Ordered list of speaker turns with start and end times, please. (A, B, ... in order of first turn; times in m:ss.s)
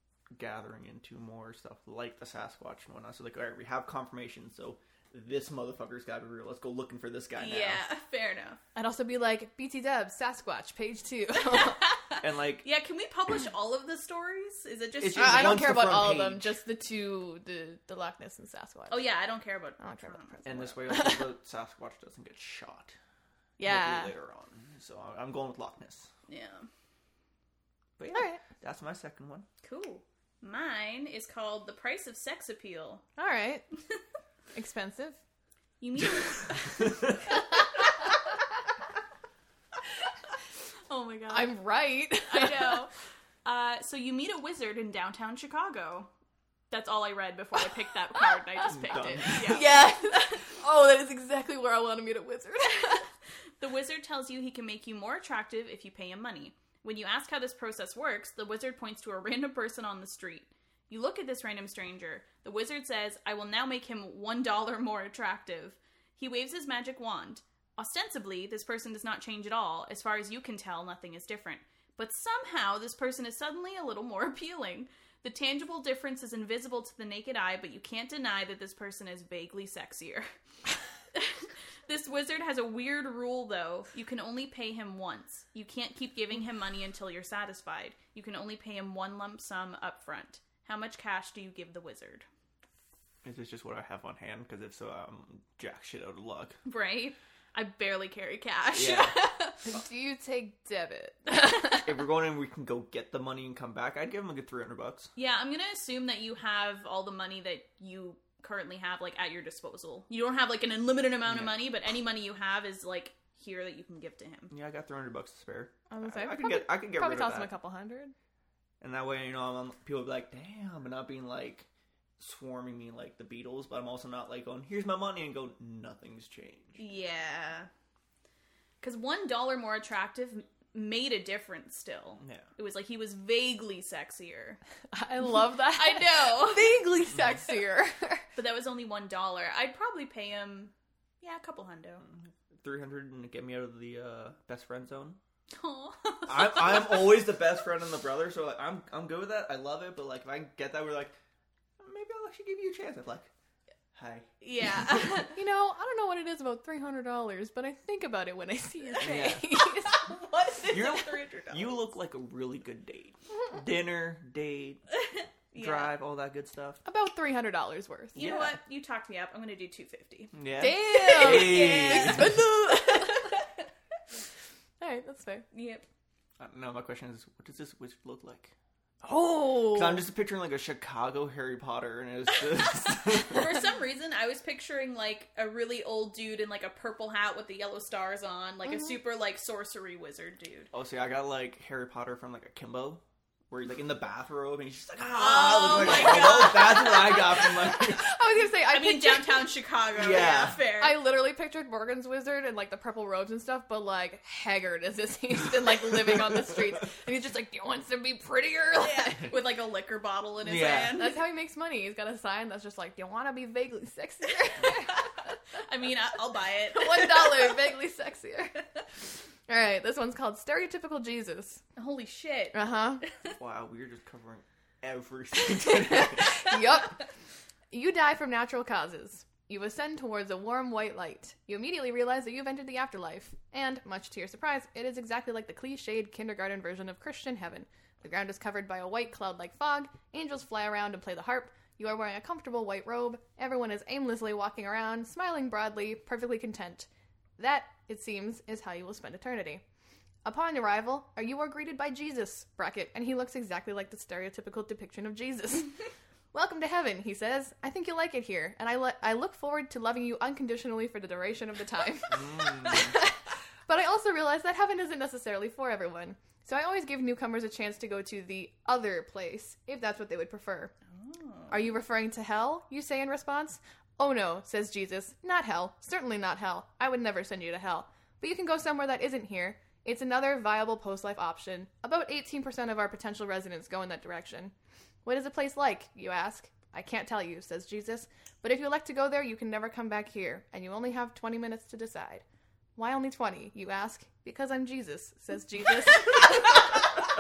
0:00.3-0:07.8 A
0:07.4-0:08.6 B
0:08.8-0:11.8 C
0:11.5-0:15.6 B
0:12.2-0:12.7 A
0:15.0-0:16.6 A
0:15.1-0:19.1 C
0:18.9-0:20.5 B
0:19.8-0:21.3 C
0:20.4-0:23.0 A
0:23.6-0:24.1 C
0:23.6-0:26.1 A
0:26.3-0:26.7 B
0:28.0-0:29.5 A
0:28.1-0:28.4 C
0:29.6-0:33.0 B
0:33.2-0:33.6 C
0:34.5-0:35.2 C
0:35.8-0:37.7 B
0:36.8-0:37.1 A
0:40.9-0:41.7 B
0:41.3-0:42.8 C
0:42.2-0:42.9 B
0:43.4-0:46.1 B
0:46.7-0:50.3 B
0:48.3-0:53.1 C
0:48.7-0:49.7 A
0:53.6-1:20.3 B
1:21.1-1:32.3 B
1:33.2-1:36.6 A
1:36.6-1:39.7 B
1:38.7-1:39.2 A
1:39.7-1:41.9 C
1:41.7-1:45.1 A
1:45.2-1:54.5 B
1:51.2-1:51.7 A
1:54.5-1:57.5 A
1:55.9-1:58.1 C
1:58.8-2:01.7 A
2:02.2-2:06.8 A
2:06.8-2:07.7 B
2:08.8-2:14.6 B
2:12.2-2:12.5 A
2:14.9-2:18.2 C
2:15.7-2:16.8 B
2:18.4-2:22.0 B
2:22.0-2:25.2 A
2:25.5-2:27.2 B
2:26.3-2:31.2 A
2:31.8-2:33.3 A
2:33.9-2:35.2 A
2:34.4-2:35.3 B
2:35.3-2:40.2 C
2:38.9-2:41.8 B
2:39.0-2:39.4 A
2:40.7-2:44.8 A
2:45.0-2:45.9 B
2:45.6-2:46.8 A
2:46.8-2:48.3 C
2:48.2-2:50.3 B
2:48.2-2:48.6 A
2:50.3-2:52.4 A
2:50.6-2:53.3 C
2:50.9-2:53.4 B
2:54.8-2:55.4 C
2:55.5-2:55.8 B
2:56.4-2:58.6 A
2:59.0-3:00.1 C
2:59.4-3:03.6 A
3:03.0-3:10.7 B
3:10.7-3:18.1 A
3:15.1-3:17.5 B
3:16.1-3:19.5 C
3:18.7-3:21.0 B
3:19.9-3:20.6 A
3:20.8-3:29.3 C
3:28.8-3:31.2 B
3:30.4-3:31.0 A
3:31.0-3:35.0 C
3:35.5-3:37.6 B
3:36.7-3:38.6 C
3:39.5-3:41.6 C
3:41.8-3:43.3 B
3:42.5-3:43.0 C
3:43.2-3:46.4 A
3:45.6-3:47.0 C
3:47.7-4:09.6 C
4:10.2-4:15.7 C
4:16.3-4:30.7 C
4:22.1-4:22.9 A
4:31.0-4:31.7 B
4:31.5-4:44.5 C
4:45.0-4:52.2 C
4:52.8-4:56.9 C